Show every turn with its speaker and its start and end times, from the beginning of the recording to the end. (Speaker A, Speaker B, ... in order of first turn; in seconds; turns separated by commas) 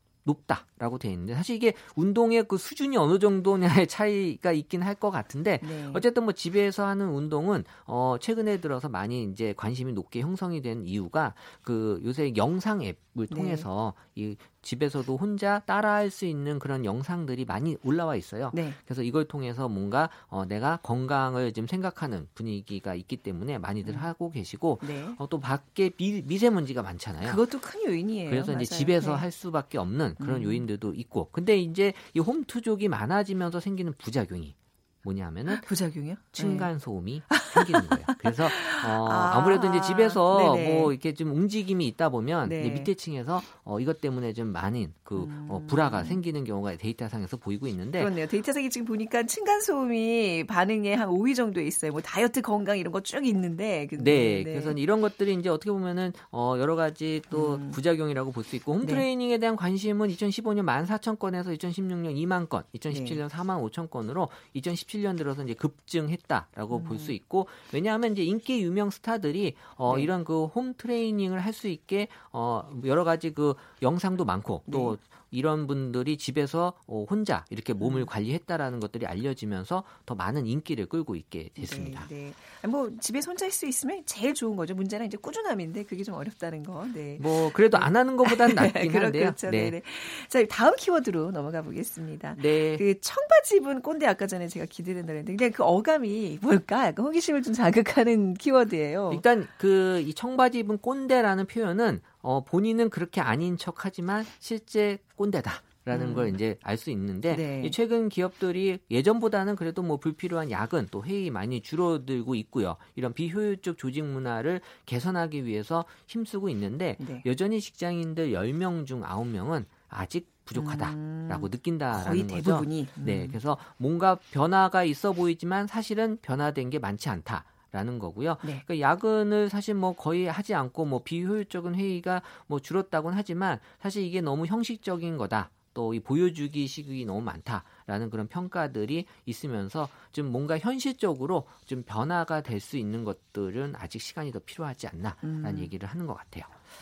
Speaker A: 0.2-27.4, Speaker B: 5.6-6.0, Speaker B: 13.3-13.7, Speaker B: 18.5-18.8, Speaker B: 24.8-25.2, Speaker B: 27.2-29.2, Speaker A: 28.3-35.7, Speaker B: 30.2-30.6, Speaker B: 35.5-36.7, Speaker A: 36.4-48.1, Speaker B: 37.3-40.9, Speaker B: 42.5-42.9, Speaker B: 45.2-46.2, Speaker B: 48.0-54.8, Speaker A: 54.0-82.1, Speaker B: 57.3-57.8, Speaker B: 62.9-63.2, Speaker B: 66.7-67.1, Speaker B: 74.7-75.0, Speaker B: 77.8-78.1, Speaker B: 81.6-99.2, Speaker A: 87.2-89.8, Speaker A: 92.4-92.8, Speaker A: 99.1-146.5, Speaker B: 105.9-106.4, Speaker B: 107.3-107.8, Speaker B: 117.0-117.2, Speaker B: 120.5-123.4, Speaker B: 145.2-145.7